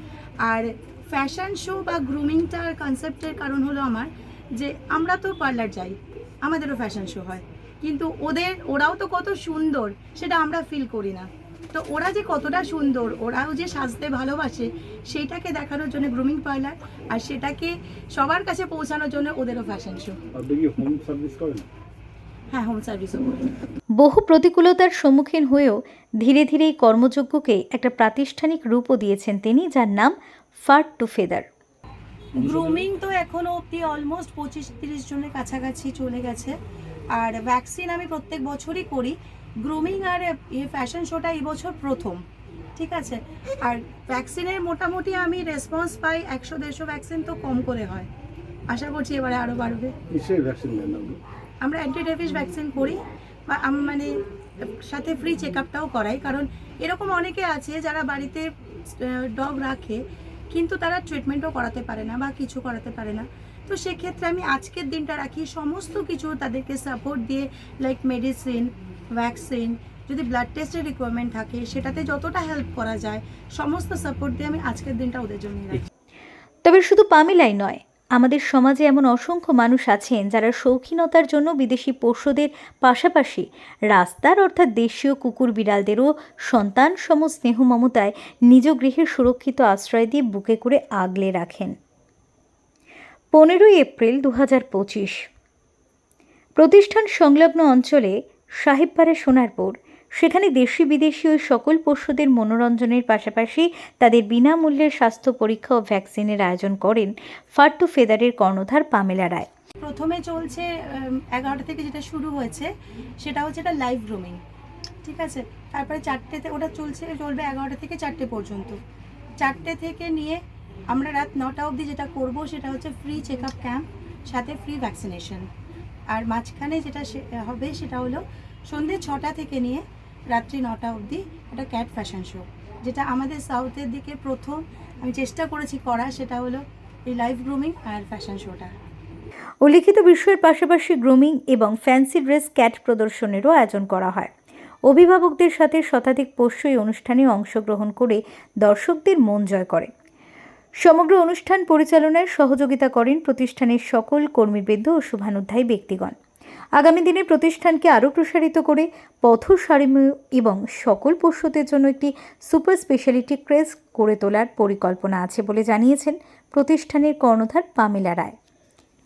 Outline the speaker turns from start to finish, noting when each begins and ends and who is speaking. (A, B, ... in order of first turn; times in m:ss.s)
0:00.4-0:20.2 A
0:20.3-0:21.7 B
0:22.5-0:23.5 A
0:24.0-0:31.5 C
0:32.4-0:36.5 A
0:37.1-0:42.2 A
0:42.8-0:48.1 A
0:48.7-0:49.9 A
0:50.1-0:51.2 B
0:51.6-0:54.1 A
0:54.7-1:15.9 A
1:16.6-1:31.7 C
1:33.3-1:35.2 C
1:36.6-1:49.5 C
1:49.8-1:52.7 A
1:53.2-1:54.4 A
1:55.0-1:58.8 A
1:59.4-2:00.4 A
2:00.9-2:05.5 A
2:06.1-2:18.7 A
2:19.6-2:24.3 C
2:24.9-2:29.9 C
2:30.8-2:36.1 C
2:36.8-2:48.4 C